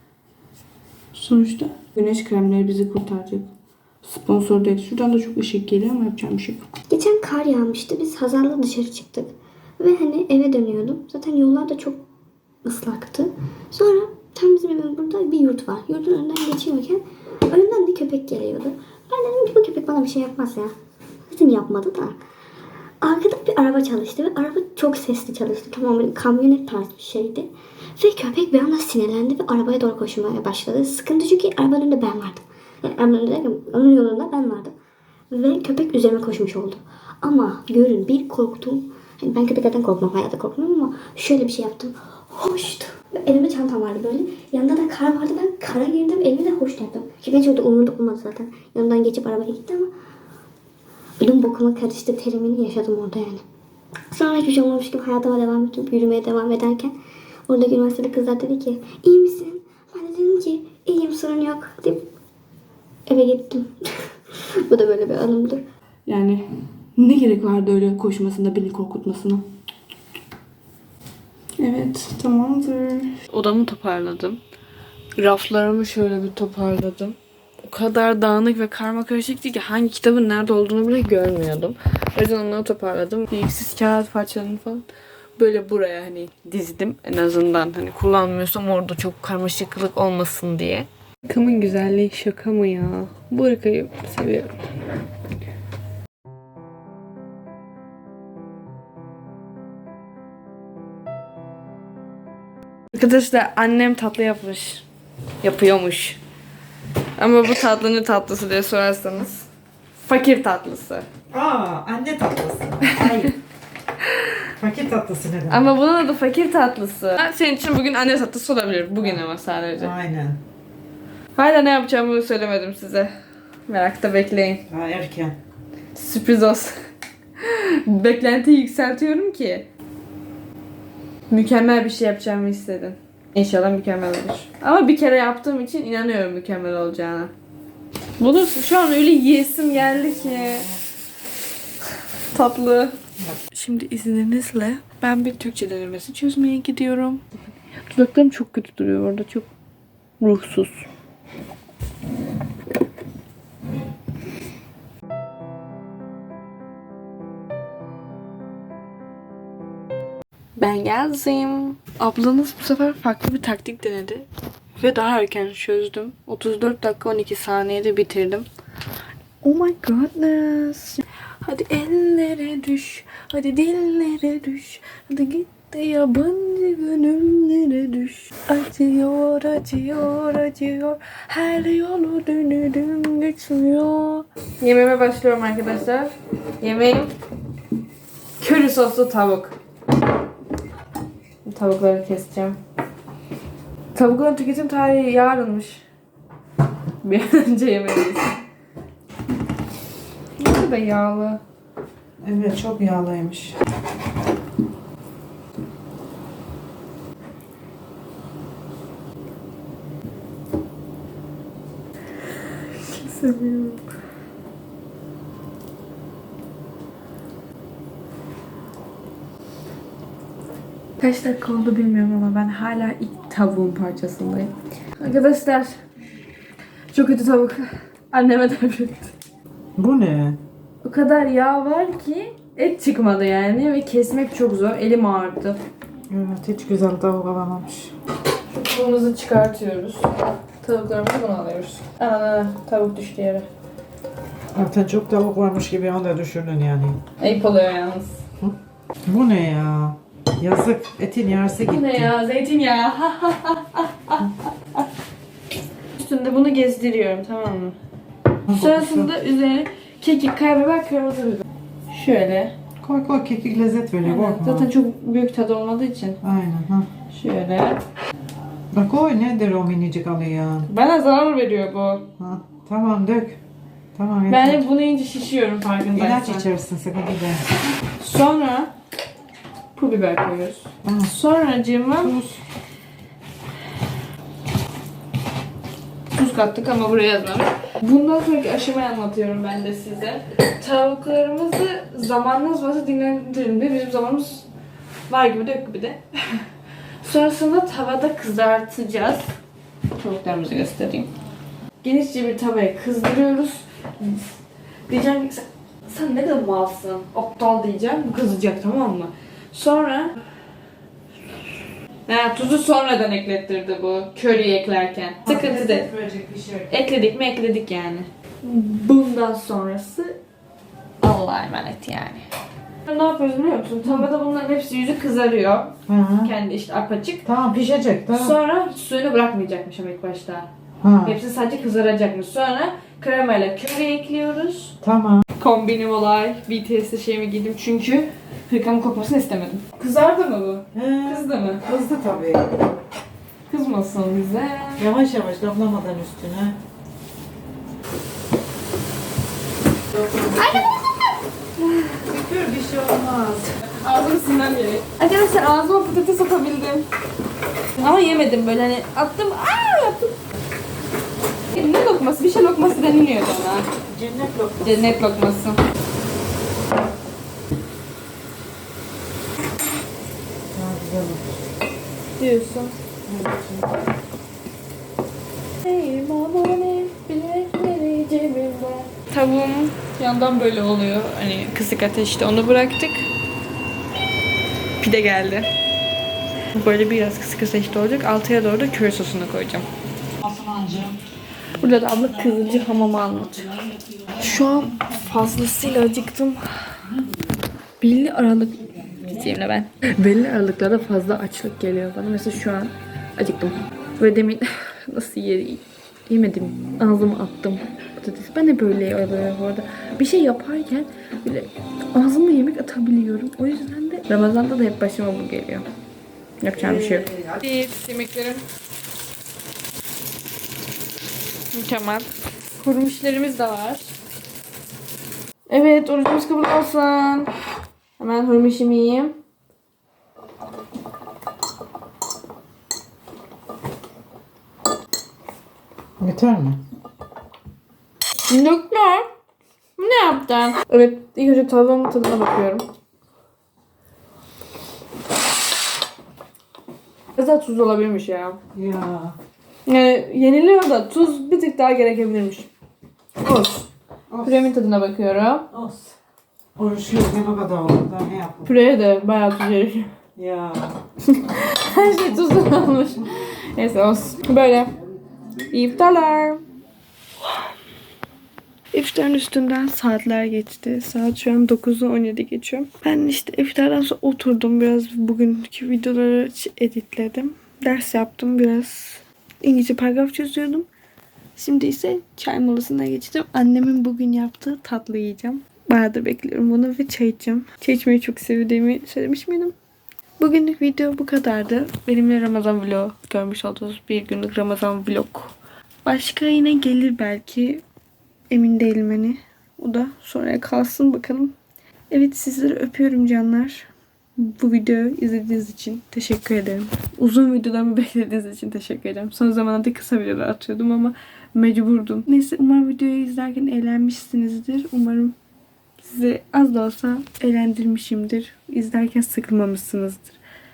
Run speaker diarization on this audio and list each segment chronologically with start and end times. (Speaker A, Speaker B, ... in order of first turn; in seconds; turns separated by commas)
Speaker A: 1.1-3.5, Speaker A: 4.0-6.7, Speaker B: 6.9-12.1, Speaker B: 12.6-20.7, Speaker B: 21.3-22.2, Speaker B: 23.0-34.7, Speaker B: 35.3-49.9, Speaker B: 51.2-53.4, Speaker B: 54.1-57.0, Speaker B: 57.5-62.1, Speaker B: 63.1-65.7, Speaker A: 66.1-66.5, Speaker A: 67.0-69.5, Speaker A: 71.6-74.4, Speaker A: 75.2-84.9, Speaker A: 85.4-94.6, Speaker A: 102.9-104.8, Speaker A: 105.4-106.2, Speaker A: 107.2-109.5, Speaker A: 110.0-111.1, Speaker C: 111.3-113.3, Speaker A: 112.9-113.3, Speaker C: 114.6-115.7, Speaker A: 115.5-119.9, Speaker C: 119.8-120.4, Speaker A: 121.4-123.1, Speaker A: 123.7-124.6, Speaker C: 124.7-125.4, Speaker A: 125.9-126.8, Speaker A: 127.4-129.7, Speaker A: 131.3-137.3, Speaker A: 138.2-140.8, Speaker C: 140.1-140.7, Speaker A: 142.3-143.0, Speaker A: 143.5-147.2, Speaker A: 147.9-149.5, Speaker A: 150.2-150.9, Speaker A: 160.6-164.3, Speaker A: 164.8-168.5, Speaker A: 169.4-187.1, Speaker A: 188.4-189.6, Speaker A: 191.4-192.6, Speaker A: 193.9-195.8, Speaker A: 197.0-198.4, Speaker A: 200.4-201.4, Speaker C: 202.2-203.6, Speaker A: 212.8-213.8, Speaker A: 221.0-225.8, Speaker A: 226.9-229.1, Speaker C: 229.8-230.4, Speaker A: 230.8-235.6, Speaker C: 236.1-237.9, Speaker A: 238.5-243.5, Speaker C: 244.5-247.0, Speaker A: 247.2-248.2, Speaker C: 248.4-252.1, Speaker A: 251.6-254.8, Speaker A: 255.9-257.8, Speaker C: 258.5-259.1, Speaker A: 258.5-262.5, Speaker C: 262.8-264.7, Speaker A: 264.0-266.2, Speaker C: 266.2-266.9, Speaker A: 267.1-267.8, Speaker C: 268.7-270.7, Speaker A: 270.7-272.1, Speaker C: 272.2-273.4, Speaker C: 273.9-274.6, Speaker A: 274.3-276.5, Speaker C: 275.9-277.4, Speaker A: 277.9-278.7, Speaker A: 279.8-282.2, Speaker C: 280.8-281.1, Speaker C: 282.0-282.4, Speaker A: 286.1-294.5, Speaker A: 295.1-296.5, Speaker A: 297.0-299.3, Speaker A: 299.9-301.1, Speaker A: 301.8-304.3, Speaker A: 304.9-310.2, Speaker A: 312.1-315.9, Speaker C: 315.2-316.7, Speaker A: 316.7-320.2, Speaker A: 321.0-322.2, Speaker A: 322.9-327.2, Speaker C: 325.9-326.3, Speaker C: 327.2-328.4, Speaker A: 328.1-330.5, Speaker C: 330.8-331.2, Speaker A: 331.0-334.8, Speaker C: 334.8-335.2, Speaker A: 335.4-341.6, Speaker C: 340.7-342.6, Speaker A: 343.5-344.9, Speaker C: 344.8-346.6, Speaker C: 349.9-350.7, Speaker A: 350.4-350.9, Speaker C: 352.1-353.6, Speaker A: 353.7-356.9, Speaker A: 357.8-360.2, Speaker A: 361.5-363.7, Speaker C: 363.9-365.0, Speaker A: 364.6-365.6, Speaker C: 370.5-371.4, Speaker A: 372.2-372.8, Speaker C: 373.1-373.7, Speaker A: 375.6-383.1, Speaker A: 384.8-385.5, Speaker A: 386.5-389.7, Speaker C: 390.3-390.9, Speaker A: 391.6-396.8, Speaker A: 397.8-415.7, Speaker A: 416.4-418.4, Speaker A: 421.5-422.1, Speaker A: 422.6-423.9, Speaker A: 425.5-427.3, Speaker A: 428.0-429.2, Speaker C: 436.0-436.6, Speaker A: 438.3-439.1, Speaker A: 439.8-442.7, Speaker A: 447.2-448.4, Speaker C: 448.5-449.2, Speaker A: 449.7-452.5, Speaker A: 453.2-453.7, Speaker C: 454.1-454.5, Speaker A: 454.2-455.5, Speaker C: 455.5-455.9, Speaker C: 456.6-458.5, Speaker A: 458.4-459.9, Speaker C: 460.2-460.8, Speaker A: 461.1-464.7, Speaker A: 465.5-466.4, Speaker A: 468.7-480.7, Speaker A: 481.4-489.5, Speaker A: 490.2-495.3, Speaker A: 495.9-497.6, Speaker A: 498.3-501.4, Speaker A: 501.9-515.1, Speaker A: 515.8-520.2